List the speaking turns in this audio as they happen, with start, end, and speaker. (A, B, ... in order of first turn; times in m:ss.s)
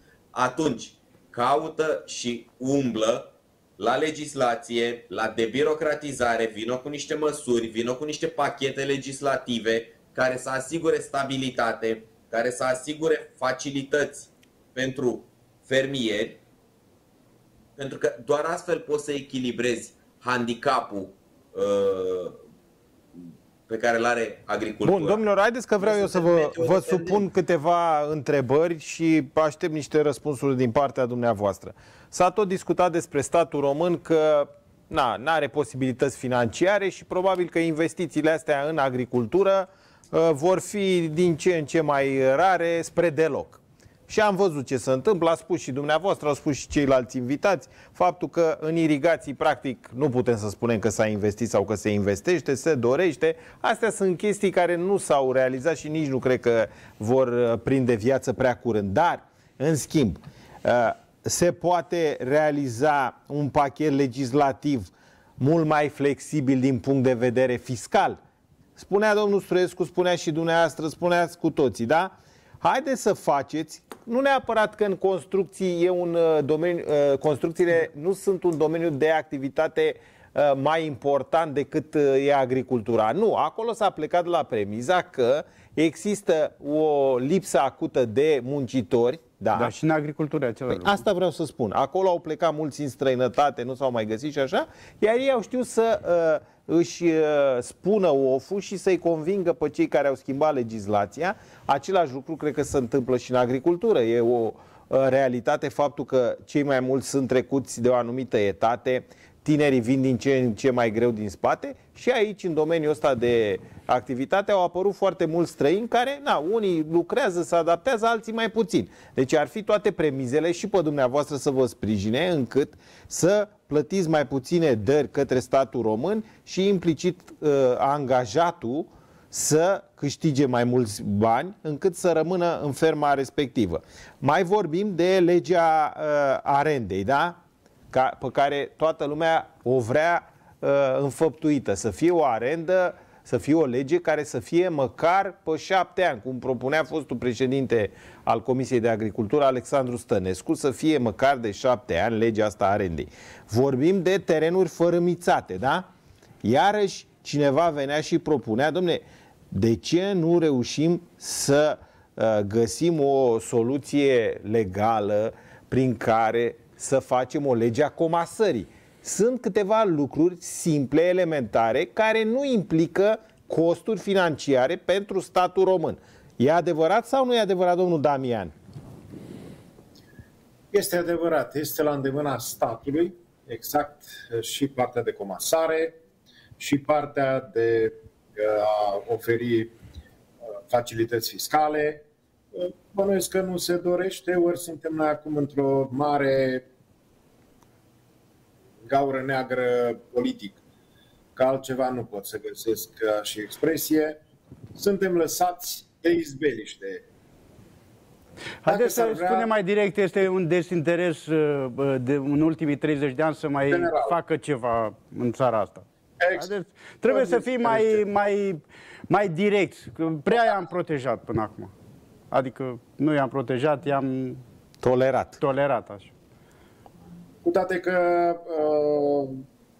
0:00.3-0:16.4 A
0:17.8-0:22.4 A
0:23.2-0:25.2 A
0:24.8-1:08.2 B
0:25.8-0:27.2 A
1:08.8-1:29.7 B
1:29.5-1:31.0 C
1:30.7-2:17.4 B
2:17.9-2:35.9 B
2:36.4-2:58.5 B
3:00.7-3:06.0 D
3:06.6-3:09.7 D
3:10.7-3:16.6 D
3:18.8-3:20.6 D
3:21.4-3:24.2 D
3:24.7-3:27.0 D
3:28.6-3:41.7 C
3:28.7-3:29.5 D
3:33.7-3:34.1 D
3:36.2-3:36.5 D
3:37.1-3:38.0 D
3:42.3-3:44.4 C
3:44.8-3:45.4 B
3:45.4-3:46.1 C
3:47.4-3:49.4 D